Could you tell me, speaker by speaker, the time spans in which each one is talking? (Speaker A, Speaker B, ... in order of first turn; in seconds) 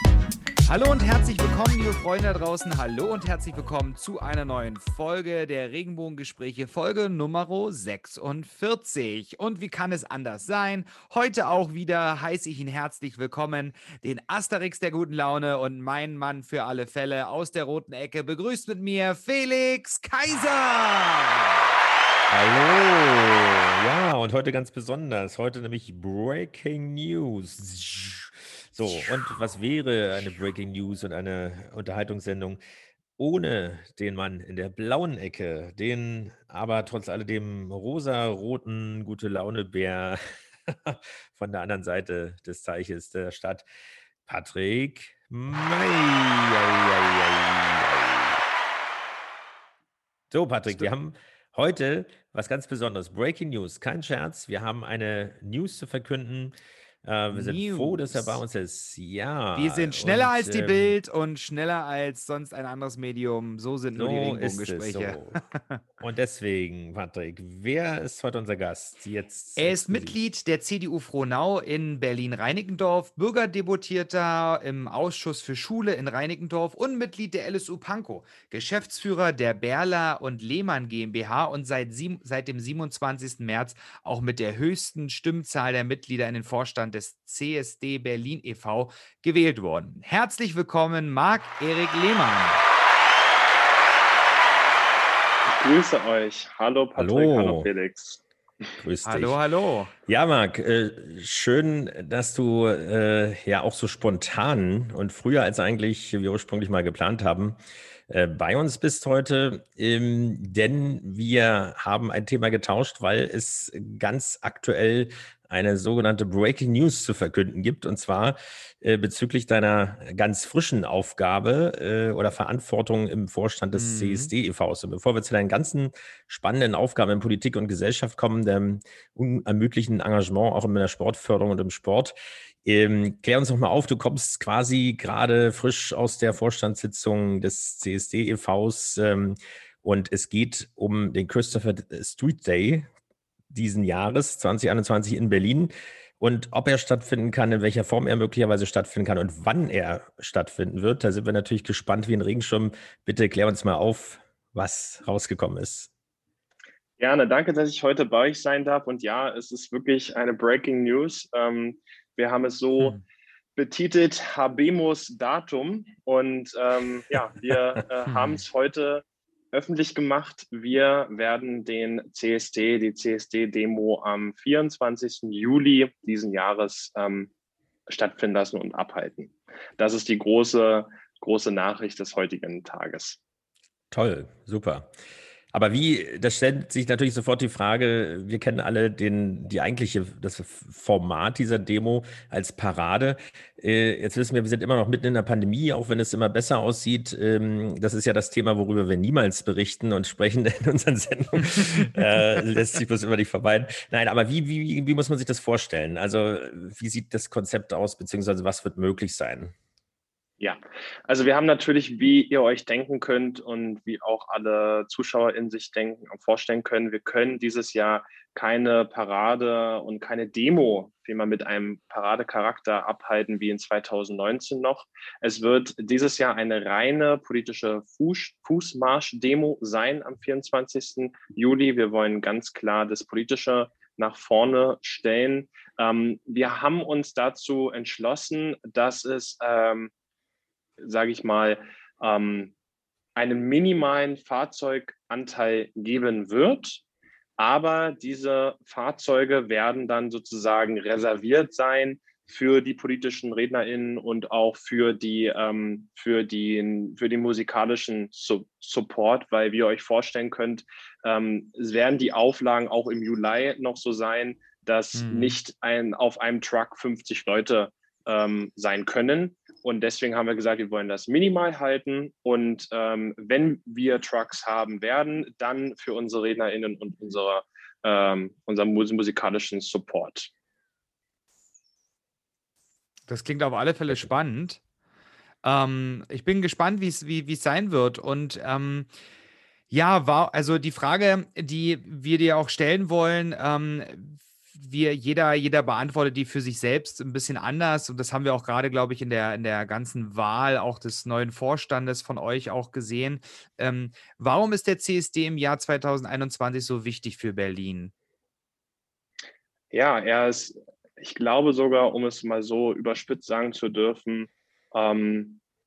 Speaker A: 0.7-21.5, 57.3-58.4, 59.5-65.8, 69.6-92.6, 99.0-99.9, 123.7-124.3, 168.1-168.4, 264.9-265.4, 283.1-284.6, 285.4-288.9, 289.7-307.9
Speaker B: 22.3-32.6, 33.2-43.7, 44.3-48.4, 50.3-61.0, 64.0-65.4, 66.0-70.2, 97.0-97.7, 98.8-99.4, 100.1-107.6, 108.1-142.9, 143.5-155.9, 183.9-184.9, 185.5-209.6
Speaker C: 95.5-98.2, 157.0-163.0, 163.6-177.3, 177.9-183.2, 210.4-239.9, 240.8-242.5, 243.2-246.8, 247.4-280.3, 309.7-315.4